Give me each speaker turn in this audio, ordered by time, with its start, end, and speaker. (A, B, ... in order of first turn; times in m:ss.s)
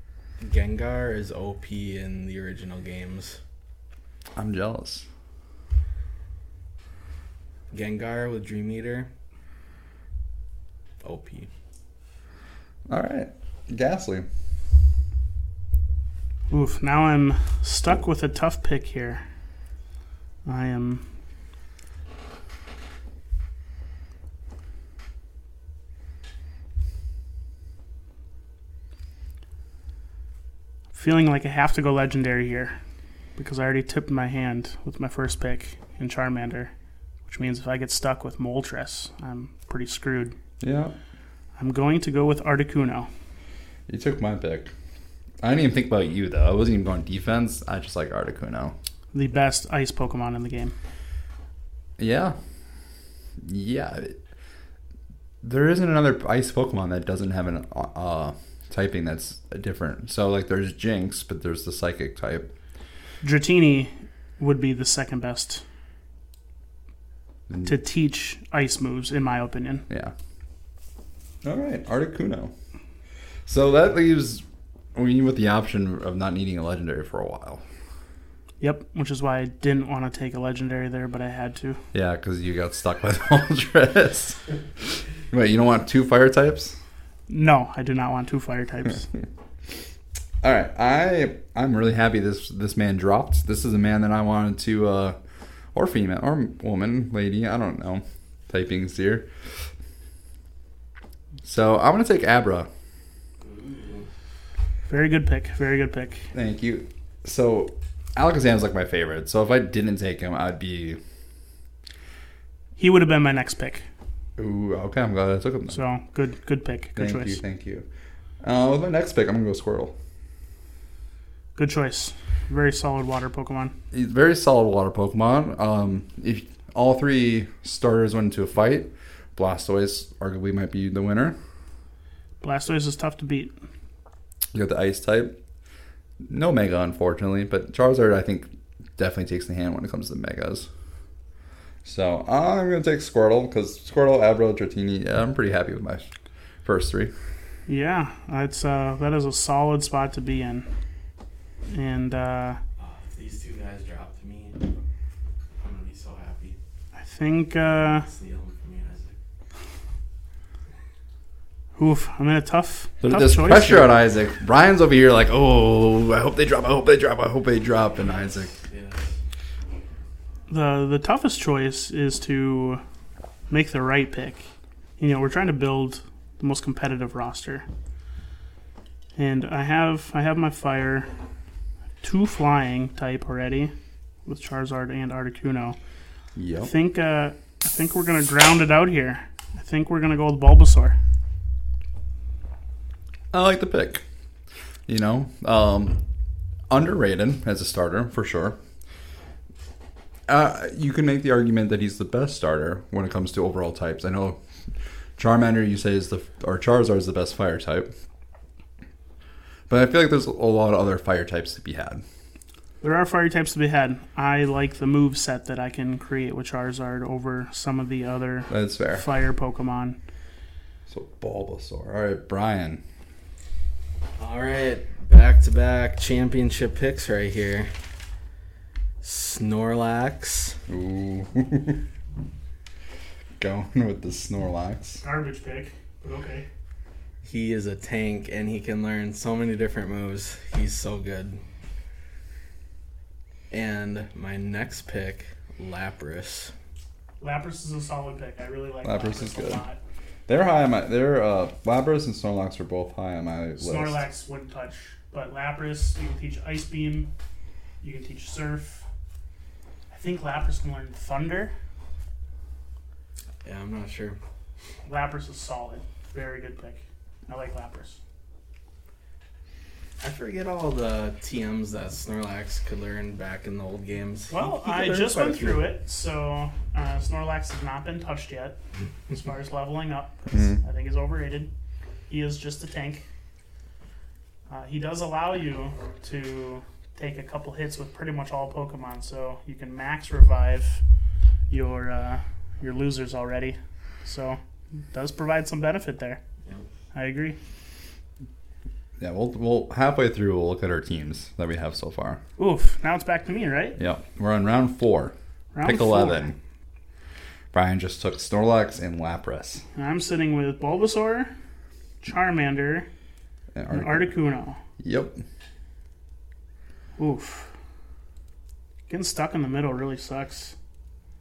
0:00.4-0:03.4 A
0:04.4-0:05.1 B
0:07.7-0:09.1 A
0:11.0-0:11.5 A
0:12.9-0:14.3 B
0:16.5-0:19.2 C
0:20.4-0:21.0 C
0:30.9-0:32.8 C
0:33.4-0:36.7 C
0:37.3-0:40.4 C
0:40.6-0:40.9 B
0:41.6-0:43.1 C
0:43.9-0:44.7 B
0:45.4-0:48.8 B
0:49.1-0:50.7 C
0:52.0-0:52.4 B
0:53.4-0:54.2 B
0:55.4-1:02.5 B
1:03.2-1:05.6 C
1:07.5-1:07.8 B
1:07.7-1:09.9 C
1:11.4-1:12.5 B
1:13.5-1:14.4 B
1:14.9-1:17.6 B
1:18.6-1:21.8 C
1:21.9-1:24.4 B
1:25.3-1:26.8 B
1:27.3-1:29.1 C
1:30.4-1:35.2 B
1:35.8-1:39.3 B
1:41.4-1:42.7 B
1:43.4-1:44.1 A
1:44.9-1:46.2 C
1:46.3-1:51.0 B
1:52.8-1:53.8 C
1:54.4-1:55.8 B
1:55.7-1:57.4 C
1:57.0-1:57.8 B
1:58.4-1:59.9 B
2:01.6-2:03.7 C
2:03.9-2:11.4 B
2:12.4-2:13.5 C
2:14.5-2:15.4 B
2:16.2-2:20.7 B
2:21.8-2:26.1 B
2:26.6-2:27.1 B
2:27.7-2:30.7 C
2:31.7-2:32.6 C
2:32.8-2:34.6 A
2:35.6-2:36.6 A
2:36.9-2:38.1 C
2:38.0-2:39.2 A
2:41.8-2:43.9 C
2:43.0-2:48.5 B
2:48.0-2:49.2 A
2:50.5-2:52.8 C
2:53.5-2:54.4 C
2:55.0-2:57.7 C
2:59.2-3:01.1 C
3:02.0-3:03.7 C
3:04.2-3:05.8 C
3:06.4-3:06.7 B
3:06.6-3:11.0 C
3:13.3-3:14.0 B
3:14.9-3:16.0 B
3:16.7-3:18.6 B
3:20.3-3:24.4 B
3:25.2-3:27.9 B
3:29.7-3:32.0 B
3:32.8-3:40.0 C
3:38.5-3:39.0 B
3:40.9-3:42.8 B
3:44.2-3:47.7 A
3:49.0-3:50.6 A
3:50.7-3:51.8 B
3:53.4-3:55.0 B
3:55.0-3:56.5 C
3:57.2-4:01.4 A
4:03.5-4:06.5 A
4:07.2-4:09.8 C
4:08.8-4:09.6 B
4:10.3-4:14.0 B
4:13.6-4:17.1 C
4:17.8-4:18.8 C
4:19.9-4:21.5 C
4:23.4-4:24.2 A
4:24.8-4:28.0 C
4:30.0-4:35.7 A
4:34.3-4:41.5 C
4:40.3-4:40.6 B
4:42.1-4:43.0 C
4:44.5-4:50.8 C
4:51.5-4:56.2 C
4:56.9-4:57.4 C
4:59.0-5:02.2 B
5:02.4-5:03.8 C
5:03.8-5:06.3 B
5:05.5-5:06.3 C
5:07.5-5:09.6 B
5:09.8-5:11.3 C
5:12.0-5:12.9 C
5:13.5-5:14.1 B
5:13.7-5:14.6 C
5:14.8-5:15.2 B
5:17.0-5:17.5 C
5:18.9-5:20.6 C